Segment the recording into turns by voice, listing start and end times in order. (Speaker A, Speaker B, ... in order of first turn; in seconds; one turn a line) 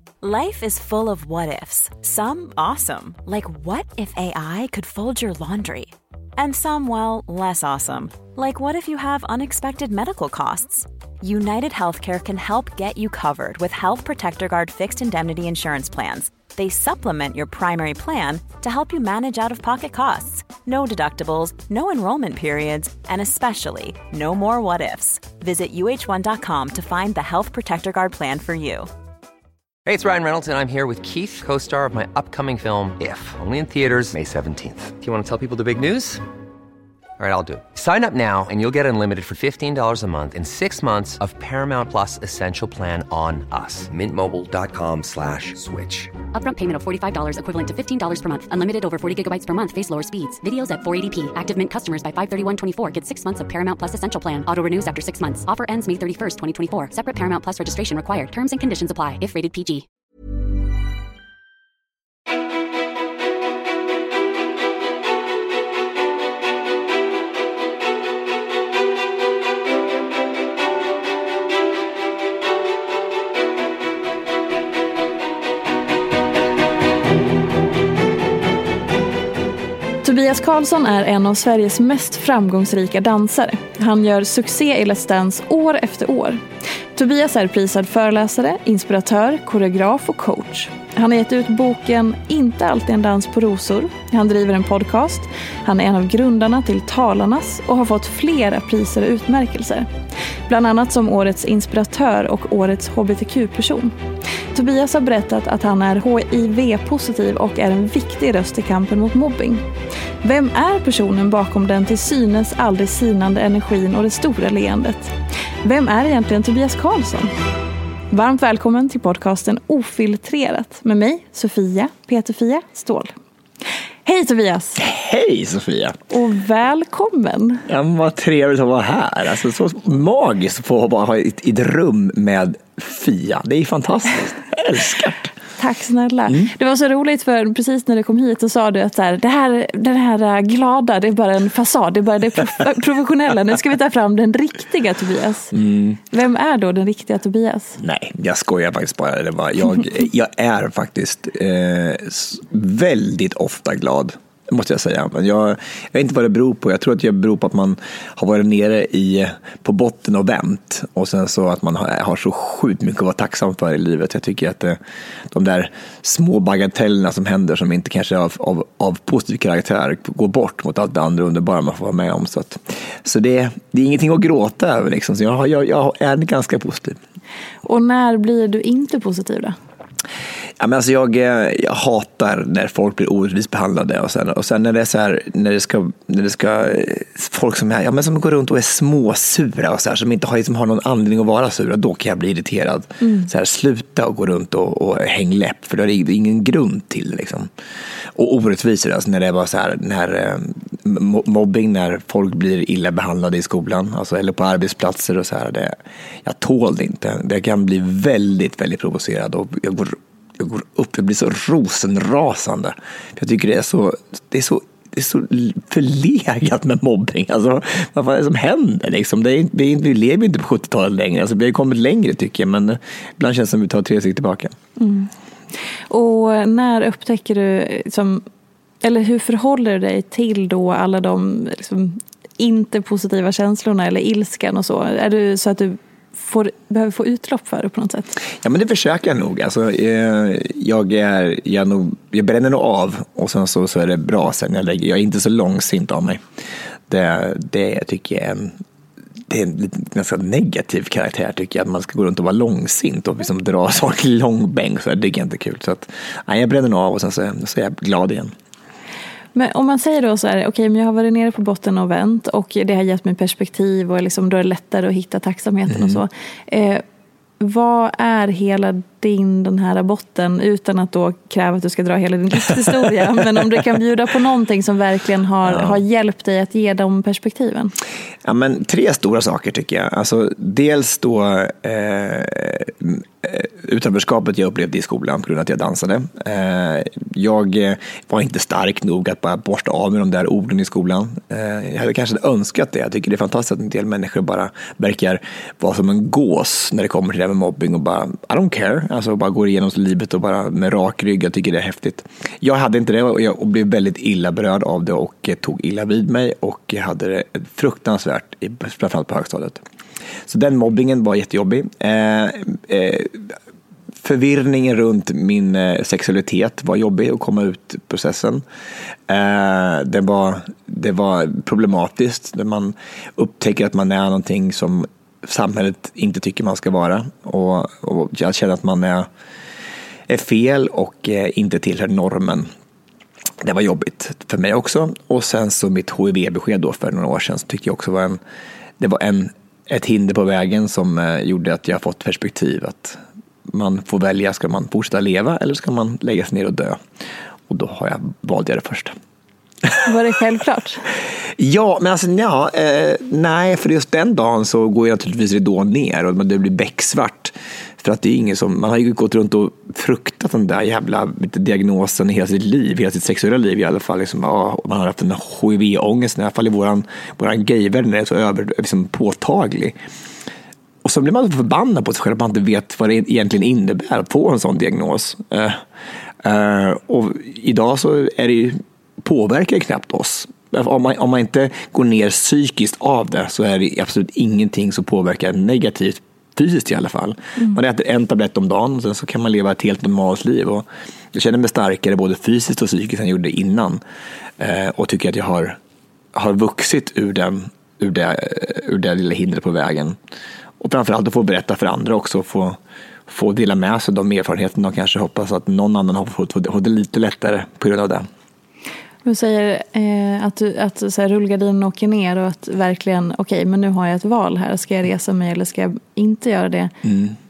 Speaker A: 0.2-28.9
Speaker B: 29.9-36.2
Speaker B: 37.2-46.1
Speaker C: 46.3-59.9
Speaker D: 80.0-86.4
Speaker D: 86.9-99.9
Speaker D: 100.5-104.0
Speaker D: 104.5-109.7
Speaker D: 110.2-117.3
Speaker D: 118.1-123.1
Speaker D: 124.0-124.8
Speaker E: 124.8-126.0
Speaker D: 126.1-127.6
Speaker E: 127.7-135.3
Speaker D: 135.6-145.6
Speaker E: 145.5-146.0
Speaker D: 146.1-147.8
Speaker E: 147.8-164.8
Speaker E: 165.3-177.0
Speaker D: 177.6-179.6
Speaker E: 180.6-197.5
Speaker D: 193.0-193.3
Speaker E: 198.1-224.5
Speaker D: 224.8-225.1
Speaker D: 225.9-228.2
Speaker D: 228.8-238.1
Speaker E: 238.4-246.2
Speaker E: 246.9-248.6
Speaker E: 249.3-258.3
Speaker D: 259.3-266.8
Speaker E: 265.7-266.0
Speaker D: 267.4-277.7
Speaker E: 275.4-275.8
Speaker E: 278.2-309.6
Speaker E: 310.3-313.3
Speaker E: 314.0-318.4
Speaker E: 319.1-329.1
Speaker E: 330.1-332.5
Speaker E: 333.4-338.2
Speaker E: 338.8-346.8
Speaker E: 347.5-348.9
Speaker D: 349.8-350.8
Speaker E: 351.4-369.8
Speaker E: 370.8-375.6
Speaker E: 376.2-393.8
Speaker E: 394.4-395.6
Speaker E: 396.1-399.9
Speaker E: 400.6-408.1
Speaker D: 409.0-416.7
Speaker E: 416.8-417.1